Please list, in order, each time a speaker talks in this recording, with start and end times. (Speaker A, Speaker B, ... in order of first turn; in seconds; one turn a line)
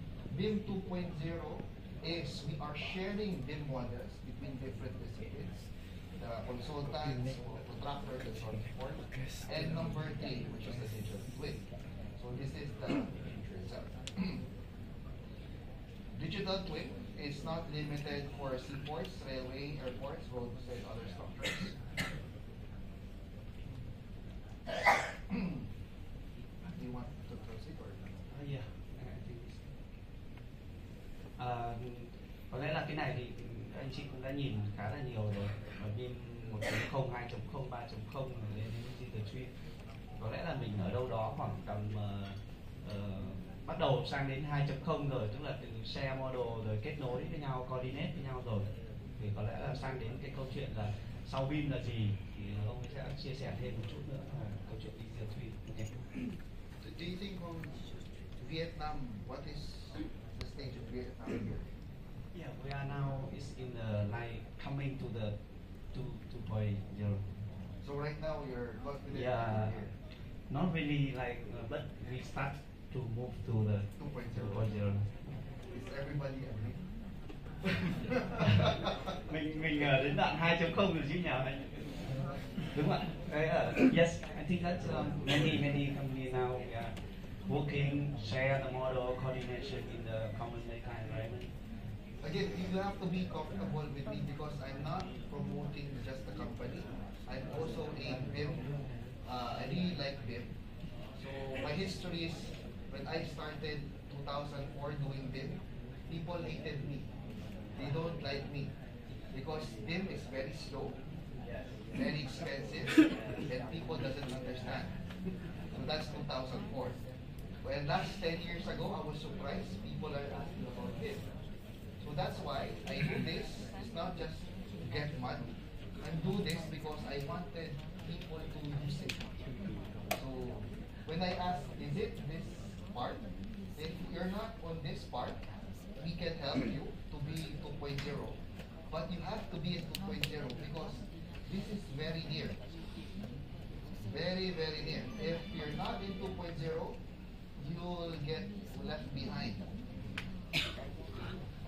Speaker A: 0.3-14.4
Speaker A: 16.1-21.8
Speaker A: 25.3-25.7
Speaker A: 26.7-28.1
Speaker B: 28.3-29.7
Speaker B: 31.4-39.5
Speaker B: 40.2-56.0
Speaker A: 56.8-57.8
Speaker A: 58.4-61.7
Speaker B: 62.3-65.3
Speaker B: 65.9-67.3
Speaker A: 67.8-69.9
Speaker B: 69.1-69.8
Speaker B: 70.5-75.1
Speaker A: 74.0-74.7
Speaker A: 75.7-76.8
Speaker B: 78.4-78.7
Speaker B: 79.3-81.7
Speaker B: 82.7-91.5
Speaker A: 92.2-98.7
Speaker A: 99.2-100.5
Speaker A: 101.1-107.1
Speaker A: 107.7-108.7
Speaker A: 109.3-111.0
Speaker B: 111.4-111.8
Speaker A: 111.9-114.9
Speaker A: 115.7-117.0
Speaker A: 117.6-121.3
Speaker A: 122.0-129.2
Speaker A: 130.1-135.4
Speaker A: 135.9-142.6
Speaker A: 144.0-147.0
Speaker A: 147.6-149.6